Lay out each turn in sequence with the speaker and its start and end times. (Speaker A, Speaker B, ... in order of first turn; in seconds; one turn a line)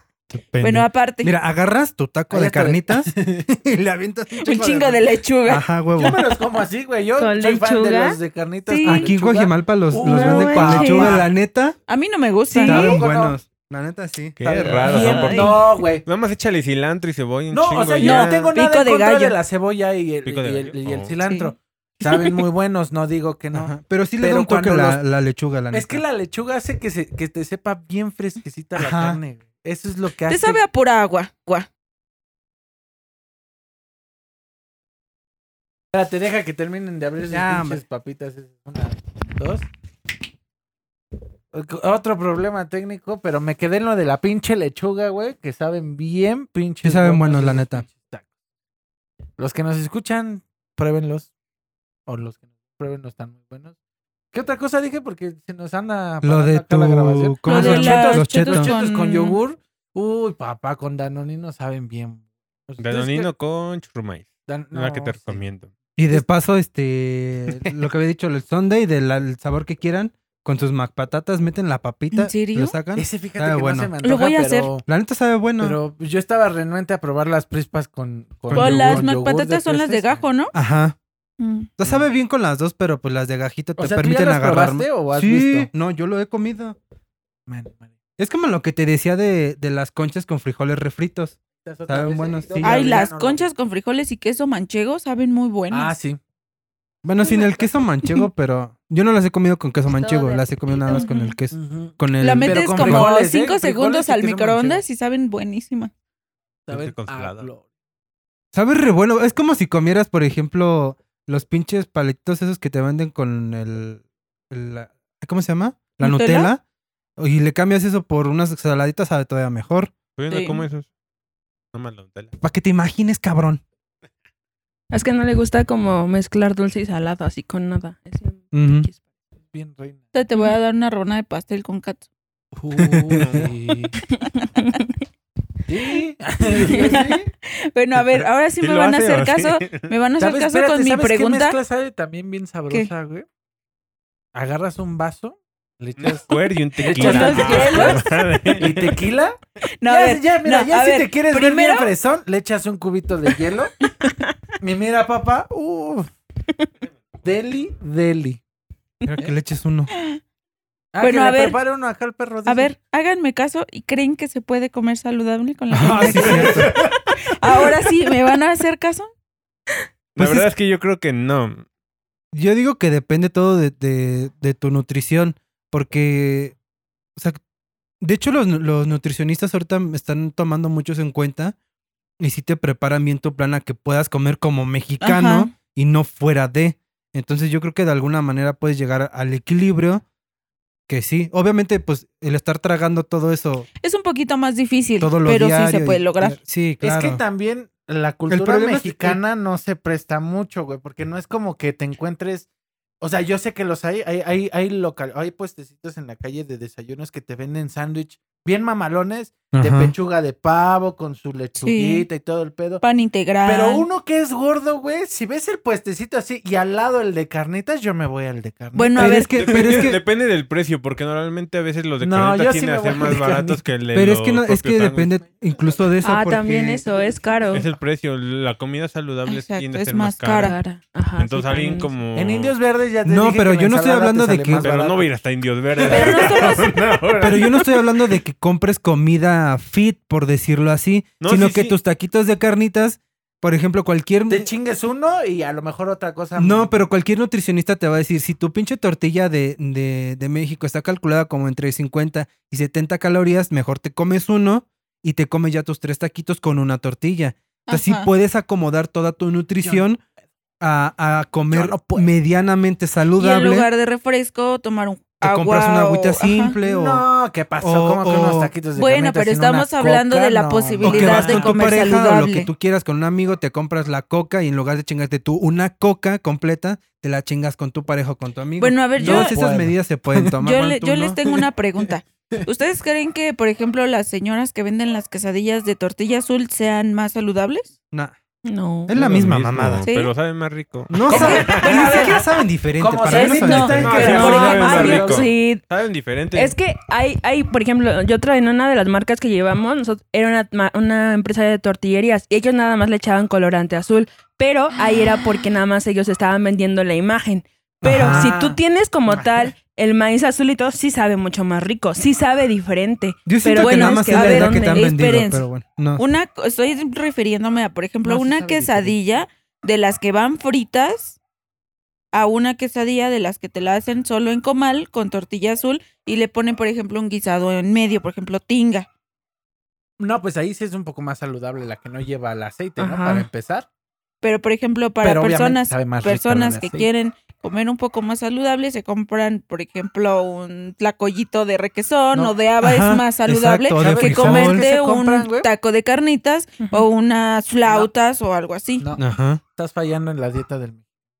Speaker A: 0.3-6.2
Speaker B: 0.6-1.3
Speaker C: 2.3-3.5
Speaker B: 4.4-5.7
Speaker C: 6.0-11.3
Speaker D: 7.2-8.2
Speaker B: 8.7-9.1
Speaker A: 8.8-11.8
Speaker D: 10.0-11.2
Speaker B: 11.9-12.9
Speaker D: 12.6-13.0
Speaker A: 12.6-15.0
Speaker C: 12.7-13.4
Speaker E: 14.4-18.6
Speaker C: 14.4-16.1
Speaker B: 14.9-15.5
Speaker C: 17.5-25.0
Speaker B: 18.0-19.3
Speaker E: 20.2-21.2
Speaker B: 21.2-21.5
Speaker A: 23.5-26.0
Speaker C: 25.7-30.6
Speaker A: 28.8-29.2
Speaker B: 30.3-31.7
Speaker C: 35.9-39.7
Speaker A: 37.3-37.8
Speaker C: 41.5-48.3
Speaker A: 46.8-47.9
Speaker C: 49.4-51.3
Speaker C: 52.1-53.7
Speaker C: 54.3-63.3
Speaker A: 56.2-58.7
Speaker B: 57.5-59.4
Speaker E: 62.8-65.7
Speaker C: 64.5-65.4
Speaker A: 66.0-73.9
Speaker B: 72.1-72.8
Speaker C: 73.0-74.9
Speaker B: 74.0-74.7
Speaker A: 74.9-75.8
Speaker C: 75.6-80.3
Speaker A: 78.5-79.1
Speaker B: 78.5-80.5
Speaker A: 80.5-81.0
Speaker B: 81.4-81.7
Speaker A: 81.8-86.8
Speaker C: 83.8-85.7
Speaker C: 87.5-87.9
Speaker A: 88.2-92.8
Speaker C: 91.6-93.5
Speaker B: 92.6-95.9
Speaker C: 95.7-96.2
Speaker A: 97.0-103.1
Speaker C: 97.3-97.7
Speaker D: 99.9-101.3
Speaker C: 101.5-104.8
Speaker B: 102.2-105.9
Speaker C: 106.7-107.6
Speaker E: 106.7-107.5
Speaker A: 108.5-116.6
Speaker B: 116.0-116.5
Speaker A: 117.2-119.9
Speaker E: 120.2-120.9
Speaker B: 120.3-120.7
Speaker E: 121.7-122.3
Speaker A: 122.4-123.6
Speaker D: 124.9-129.0
Speaker A: 128.5-128.9
Speaker C: 129.5-130.0
Speaker B: 130.1-132.1
Speaker C: 132.5-133.9
Speaker A: 132.9-133.4
Speaker E: 133.1-133.5
Speaker D: 134.6-134.9
Speaker C: 135.7-137.3
Speaker B: 136.6-141.6
Speaker D: 136.7-137.0
Speaker E: 138.0-139.9
Speaker C: 140.2-143.3
Speaker C: 144.3-153.7
Speaker E: 146.0-149.0
Speaker B: 146.9-148.0
Speaker B: 149.8-151.9
Speaker C: 154.6-156.1
Speaker C: 157.2-158.4
Speaker A: 159.1-159.9
Speaker B: 159.9-160.2
Speaker C: 160.9-162.7
Speaker B: 161.0-161.6
Speaker B: 162.4-166.7
Speaker A: 165.7-166.7
Speaker C: 165.9-166.8
Speaker E: 166.4-166.9
Speaker B: 167.2-169.1
Speaker E: 170.1-171.7
Speaker A: 170.2-170.5
Speaker A: 172.3-176.6
Speaker A: 178.0-181.6
Speaker A: 182.2-190.0
Speaker B: 185.0-185.5
Speaker A: 190.9-193.7
Speaker B: 193.8-196.4
Speaker A: 195.0-197.2
Speaker C: 196.8-202.5
Speaker A: 198.3-199.2
Speaker C: 203.0-212.8
Speaker A: 209.5-209.9
Speaker B: 211.6-212.1
Speaker B: 212.8-213.8
Speaker C: 213.4-219.8
Speaker B: 218.7-219.3
Speaker A: 218.9-220.0
Speaker E: 219.3-225.2
Speaker C: 222.0-223.6
Speaker A: 223.9-226.8
Speaker D: 226.0-227.7
Speaker E: 227.5-230.6
Speaker B: 229.3-230.6
Speaker D: 230.4-231.9
Speaker E: 231.2-232.6
Speaker C: 232.1-235.1
Speaker A: 233.1-234.7
Speaker E: 234.6-237.7
Speaker C: 235.8-236.4
Speaker B: 235.8-236.7
Speaker A: 237.2-244.5
Speaker E: 241.2-241.7
Speaker C: 244.3-246.8
Speaker A: 246.4-260.0
Speaker B: 257.7-258.1
Speaker A: 260.6-263.7
Speaker C: 261.5-262.1
Speaker B: 263.2-266.6
Speaker A: 265.2-267.1
Speaker C: 266.6-271.9
Speaker A: 267.6-268.5
Speaker B: 268.7-272.5
Speaker A: 270.8-281.2
Speaker B: 278.6-279.4
Speaker C: 279.0-280.3
Speaker B: 280.4-287.7
Speaker C: 281.8-282.4
Speaker D: 288.4-288.9
Speaker A: 288.9-289.8
Speaker E: 288.9-291.9
Speaker B: 289.8-290.1
Speaker A: 290.9-294.2
Speaker C: 291.1-295.3
Speaker B: 291.1-292.1
Speaker B: 293.0-295.6
Speaker E: 293.6-296.6
Speaker D: 294.0-295.4
Speaker D: 296.3-314.9
Speaker A: 307.8-308.3
Speaker C: 308.0-309.5
Speaker A: 313.3-316.0
Speaker B: 313.6-321.2
Speaker C: 318.0-319.0
Speaker B: 322.1-328.9
Speaker C: 330.0-333.7
Speaker D: 332.8-333.3
Speaker B: 334.2-348.9
Speaker C: 335.0-336.9
Speaker A: 342.6-344.6
Speaker C: 343.8-345.5
Speaker D: 346.6-346.9
Speaker C: 347.6-347.9
Speaker C: 348.8-349.1
Speaker A: 349.0-349.4
Speaker C: 349.6-350.8